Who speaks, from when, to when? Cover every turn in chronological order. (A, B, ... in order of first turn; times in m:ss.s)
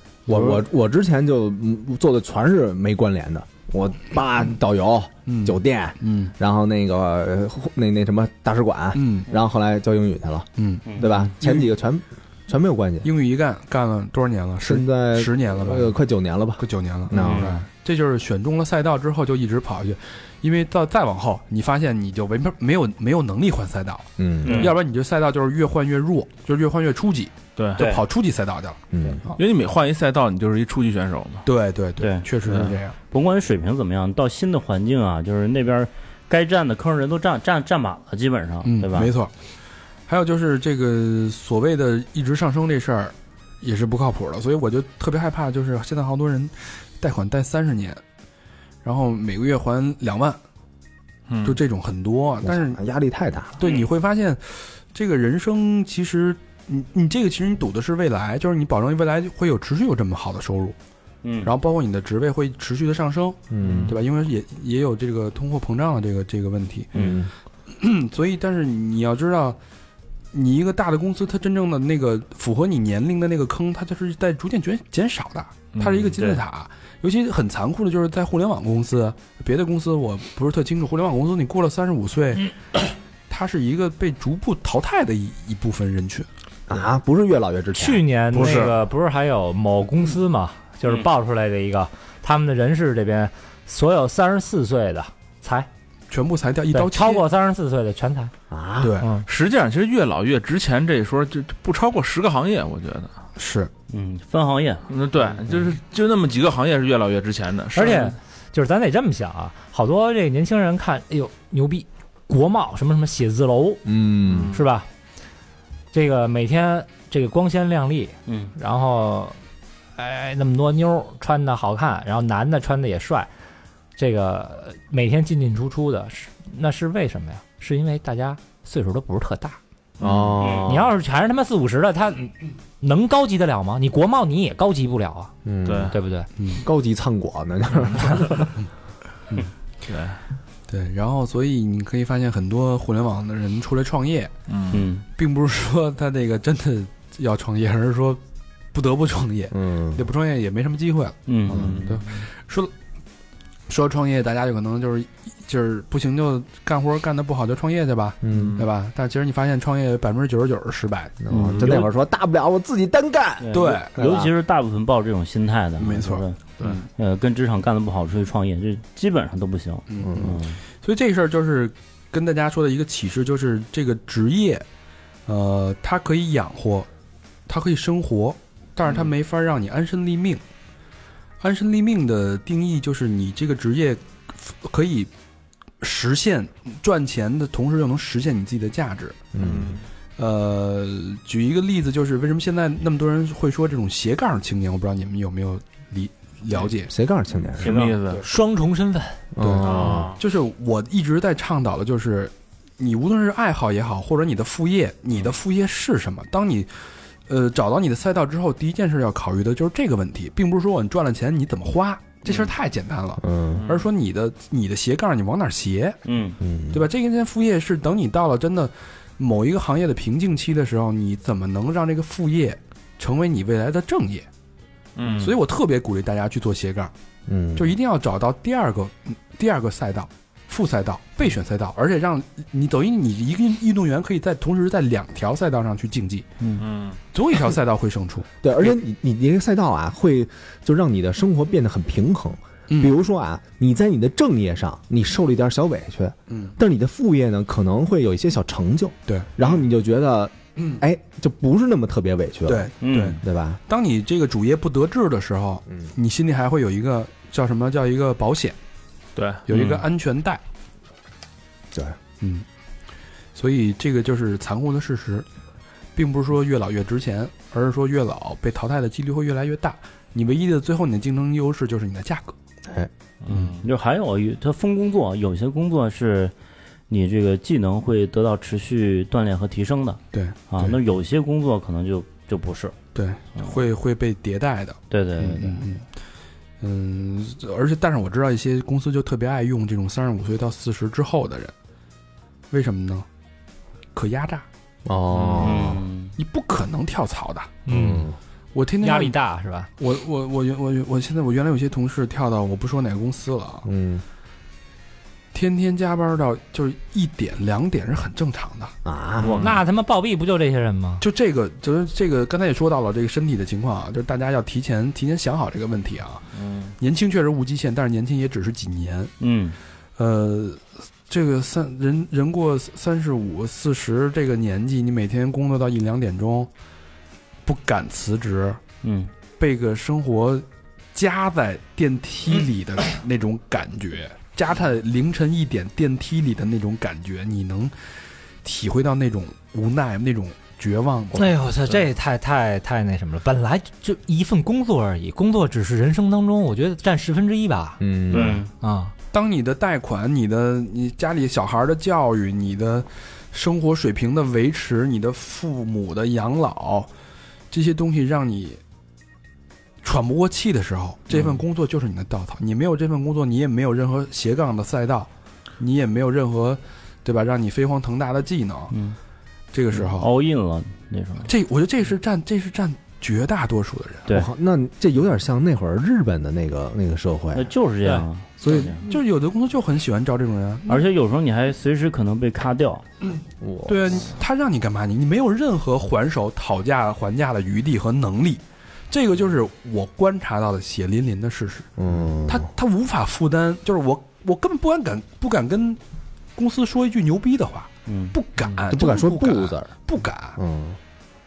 0:00.3-0:13.1 A
0:05.2-0:06.3 B
0:08.9-0:09.3 B
0:10.6-0:11.7 B
0:13.0-0:15.9 B
0:14.6-0:17.5 A
0:16.6-0:29.4 B
0:17.2-0:17.6 C
0:24.2-0:24.7 A
0:24.4-0:24.8 C
0:27.8-0:28.0 C
0:28.9-0:29.2 A
0:29.4-0:31.4 D
0:31.4-0:33.0 B
0:32.0-0:39.1 C
0:38.6-0:39.3 B
0:40.1-0:48.0 B
0:48.8-0:50.4 B
0:51.3-0:51.6 D
0:51.4-0:52.8 B
0:52.4-0:53.6 A
0:53.6-1:00.8 B
1:01.2-1:01.5 C
1:01.4-1:07.0 B
1:03.5-1:03.9 A
1:06.9-1:07.2 C
1:06.9-1:07.3 A
1:07.7-1:09.6 B
1:10.3-1:22.5 B
1:15.8-1:16.1 D
1:23.3-1:26.3 B
1:26.7-1:28.0 A
1:27.7-1:35.7 E
1:28.3-1:28.7 D
1:36.1-1:37.2 B
1:36.7-1:38.3 E
1:38.5-1:39.0 A
1:38.8-1:39.1 B
1:39.0-1:39.2 E
1:39.2-1:43.1 D
1:43.4-1:43.7 B
1:43.9-1:44.8 C
1:44.9-1:48.2 D
1:47.7-1:53.9 E
1:53.8-1:54.5 A
1:54.3-1:54.6 D
1:54.5-1:54.9 E
1:55.9-1:59.4 E
1:58.3-1:58.5 C
2:00.0-2:03.3 E
2:04.0-2:09.6 E
2:10.0-2:10.9 A
2:10.0-2:10.4 D
2:10.4-2:10.7 C
2:10.6-2:15.3 E
2:15.4-2:16.0 A
2:15.6-2:15.9 D
2:15.9-2:16.3 E
2:16.4-2:16.6 B
2:16.6-2:18.5 A
2:19.8-2:20.2 D
2:20.7-2:24.3 B
2:24.5-2:24.9 D
2:24.7-2:25.0 C
2:25.1-2:28.2 B
2:28.7-2:32.7 B
2:29.5-2:30.0 A
2:31.3-2:31.9 C
2:31.5-2:32.1 D
2:33.7-2:41.9 B
2:38.2-2:38.6 A
2:38.3-2:38.6 D
2:41.2-2:44.3 A
2:41.3-2:41.7 C
2:43.4-2:50.6 C
2:43.5-2:43.9 B
2:45.8-2:46.7 B
2:49.9-2:54.6 B
2:50.0-2:50.4 A
2:55.3-2:56.9 B
2:57.5-3:00.4 B
3:01.4-3:05.1 B
3:05.8-3:09.3 B
3:09.3-3:09.8 A
3:09.4-3:09.8 D
3:10.2-3:16.9 B
3:16.9-3:17.8 A
3:17.6-3:18.2 D
3:17.6-3:18.0 C
3:18.2-3:19.2 E
3:19.3-3:20.1 A
3:19.4-3:26.7 B
3:19.6-3:20.2 D
3:27.3-3:36.0 B
3:33.2-3:33.6 A
3:33.6-3:33.8 D
3:36.0-3:36.4 C
3:36.4-3:36.8 A
3:36.7-3:44.2 B
3:45.0-3:45.3 D
3:45.1-3:46.9 B
3:47.3-3:47.7 A
3:47.6-3:56.3 B
3:56.6-3:57.0 D
3:57.1-3:58.3 B
3:58.4-4:12.7 A
4:06.3-4:06.5 B
4:09.1-4:09.3 B
4:12.4-4:18.6 B
4:12.8-4:13.2 C
4:13.2-4:13.6 A
4:19.2-4:19.8 D
4:19.5-4:20.4 B
4:21.7-4:22.0 A
4:23.3-4:25.2 B
4:26.0-4:32.3 B
4:33.2-4:33.6 D
4:33.3-4:36.3 C
4:36.9-4:40.0 C
4:40.1-4:40.8 B
4:40.5-4:42.7 C
4:42.9-4:45.8 B
4:44.9-4:45.7 C
4:46.6-4:51.5 B
4:52.5-4:53.0 B
4:53.9-4:54.4 B
4:54.8-4:55.8 A
4:55.1-4:55.4 D
4:55.4-4:56.1 C
4:56.2-4:57.6 B
4:57.6-4:58.1 E
4:57.7-4:58.2 A
4:58.5-4:59.2 B
4:58.8-4:59.7 E
4:59.8-5:03.6 B
5:03.6-5:04.0 A
5:05.3-5:08.7 B
5:08.8-5:09.5 A
5:09.2-5:09.6 D
5:09.2-5:11.0 E
5:11.0-5:16.3 B
5:16.3-5:16.7 D
5:16.8-5:19.1 B
5:19.2-5:19.6 C
5:20.0-5:26.5 B
5:27.4-5:28.6 B
5:28.8-5:29.1 C
5:29.4-5:37.7 B
5:38.4-5:41.3 B
5:41.1-5:47.8 E
5:47.8-5:48.4 A
5:48.1-5:48.5 C
5:48.1-5:48.4 D
5:48.6-5:48.9 E
5:49.1-5:56.9 B
5:57.5-5:58.6 B
5:59.8-6:08.7 B
6:08.7-6:09.0 C
6:09.5-6:10.1 B
6:09.8-6:11.3 C
6:11.2-6:14.1 B
6:14.1-6:17.5 A
6:17.3-6:18.9 C
6:18.4-6:18.7 A
6:18.4-6:20.8 B
6:20.7-6:22.8 C
6:23.4-6:24.0 A
6:23.6-6:35.8 B
6:31.8-6:32.5 A
6:36.4-6:40.4 B
6:37.9-6:38.1 C
6:38.7-6:39.7 A
6:40.4-6:40.8 A